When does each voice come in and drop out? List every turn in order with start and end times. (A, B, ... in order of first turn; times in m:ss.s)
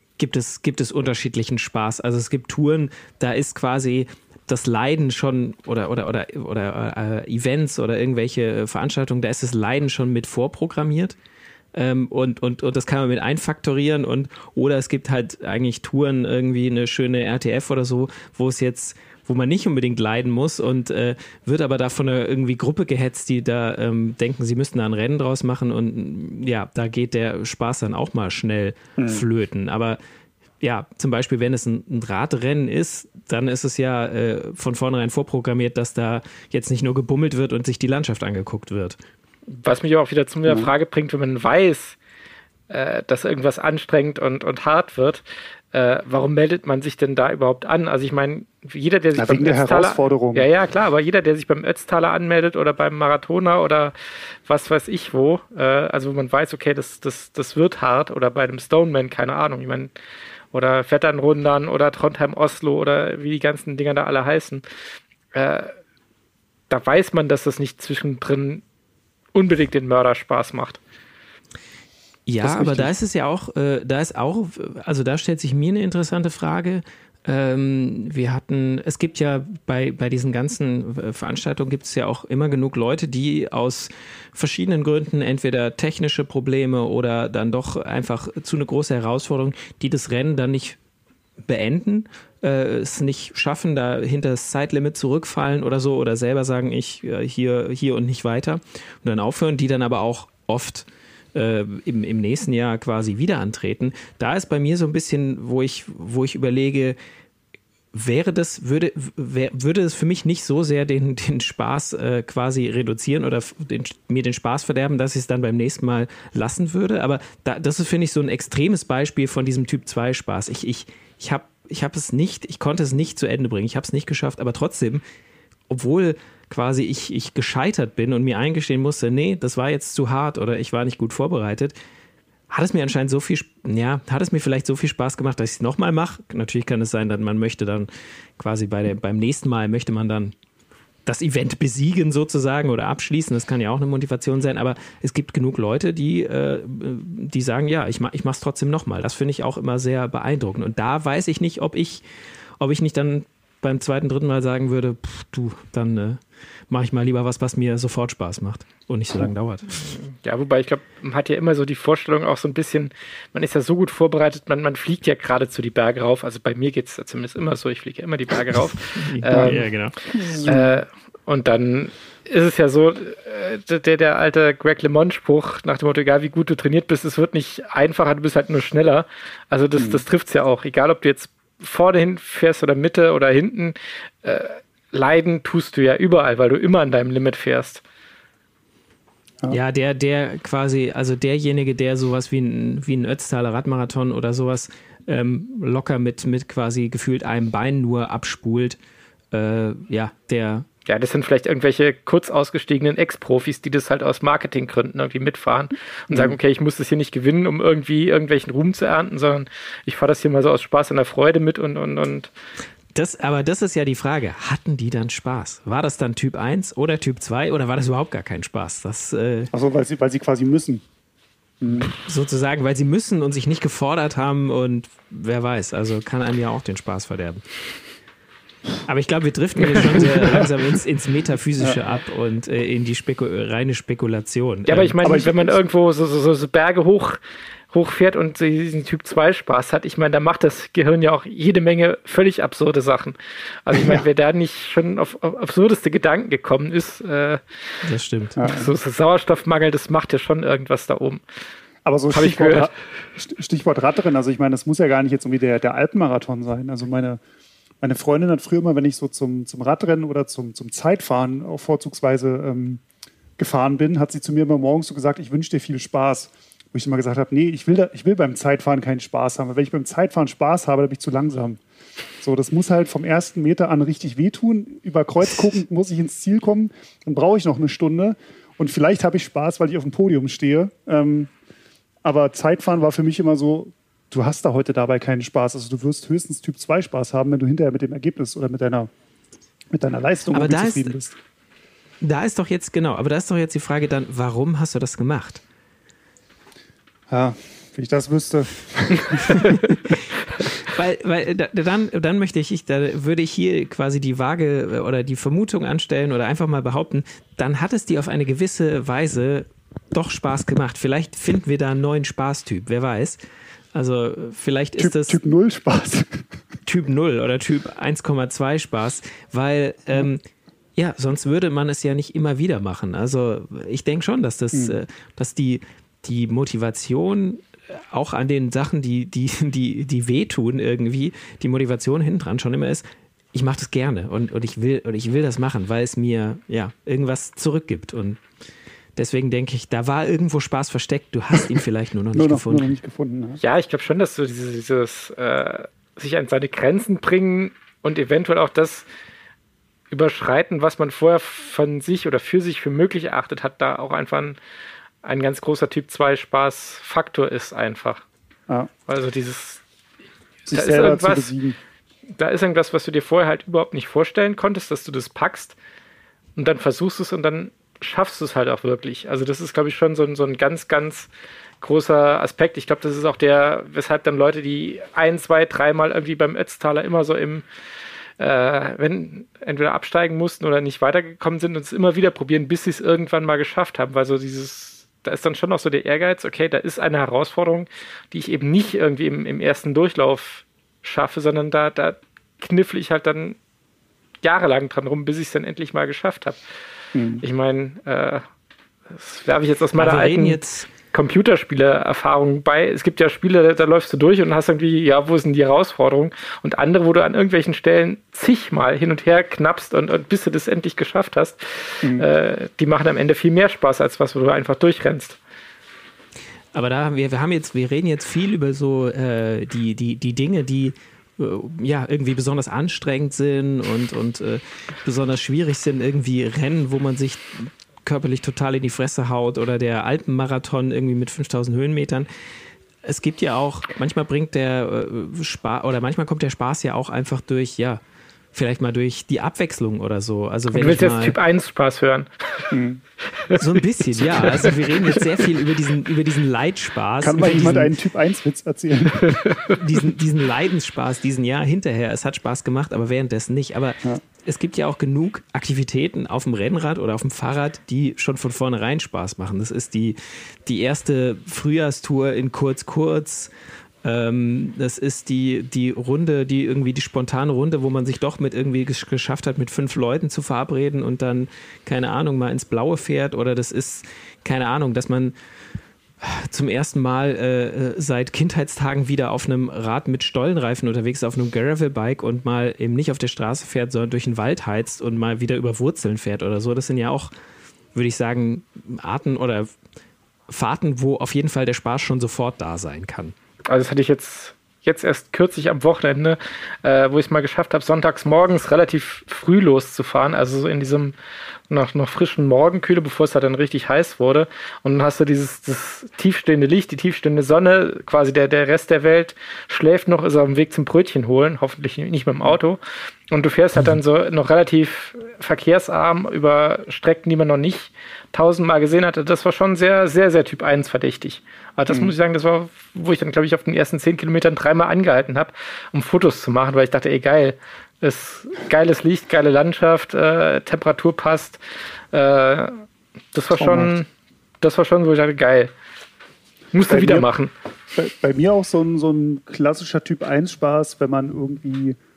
0:00.2-0:11.2 A
0:11.7-0:30.0 A
0:29.0-0:29.2 B
0:30.6-0:39.0 A
0:39.5-0:42.0 C
0:42.7-0:54.0 C
0:49.2-0:50.5 B
0:54.5-0:59.9 C
1:00.5-1:04.6 C
1:05.3-1:05.7 C
1:06.7-1:08.6 C
1:09.4-1:10.8 C
1:12.3-1:30.8 A
1:12.4-1:12.9 B
1:31.4-1:47.0 A
1:47.9-2:05.0 A
2:05.7-2:11.8 A
2:12.5-2:20.3 A
2:21.1-2:32.0 A
2:32.6-2:39.9 A
2:39.9-2:49.7 C
2:49.0-2:50.0 A
2:49.3-2:50.8 B
2:50.4-3:07.8 C
3:09.5-3:18.8 A
3:19.3-3:20.7 A
3:20.9-3:32.3 C
3:26.1-3:26.4 B
3:33.0-3:39.5 A
3:39.5-3:40.8 B
3:41.6-3:41.9 B
3:41.9-3:47.4 A
3:48.9-3:55.0 A
3:49.9-3:50.2 C
3:50.0-3:50.4 B
3:54.7-3:57.2 C
3:55.0-3:55.5 B
3:57.7-4:07.4 C
4:03.7-4:04.0 B
4:07.8-4:08.4 A
4:08.4-4:08.7 B
4:08.4-4:11.2 C
4:11.8-4:17.2 B
4:12.1-4:12.7 C
4:17.8-4:22.8 B
4:23.4-4:31.6 B
4:32.2-4:41.3 B
4:42.0-4:48.9 B
4:49.7-4:51.2 B
4:50.3-4:50.9 A
4:52.0-4:55.4 A
4:57.1-4:59.6 B
5:00.4-5:13.2 A
5:13.7-5:15.2 A
5:14.8-5:16.3 B
5:16.7-5:20.2 A
5:20.8-5:38.2 A
5:24.5-5:24.8 B
5:39.0-5:42.7 A
5:42.1-5:43.4 B
5:43.4-5:48.9 C
5:49.9-5:54.4 C
5:55.0-5:58.0 C
5:58.9-5:59.6 C
6:00.5-6:01.6 B
6:00.5-6:01.3 C
6:02.2-6:05.6 C
6:06.4-6:11.1 C
6:11.6-6:17.4 C
6:18.2-6:33.4 C
6:34.2-6:36.4 C
6:37.0-6:37.2 B
6:37.2-6:38.2 C
6:38.9-6:40.4 C
6:39.8-6:40.7 A
6:40.9-6:55.2 C
6:56.5-7:12.1 A
7:12.8-7:17.8 A
7:18.3-7:21.2 A
7:20.5-7:22.5 C
7:22.5-7:22.8 B
7:23.4-7:27.8 A
7:24.1-7:24.5 C
7:27.0-7:29.2 B
7:29.0-7:29.6 C
7:29.5-7:43.3 A
7:43.8-7:55.2 A
7:56.0-8:07.1 A
8:07.8-8:09.5 A
8:10.3-8:13.1 A
8:13.5-8:21.0 C
8:21.5-8:32.6 C
8:33.1-8:51.4 C
8:51.9-8:53.9 C
8:53.4-8:53.8 B
8:54.4-8:55.5 C
8:56.5-8:57.3 C
8:56.7-8:57.1 B
8:57.8-9:01.8 B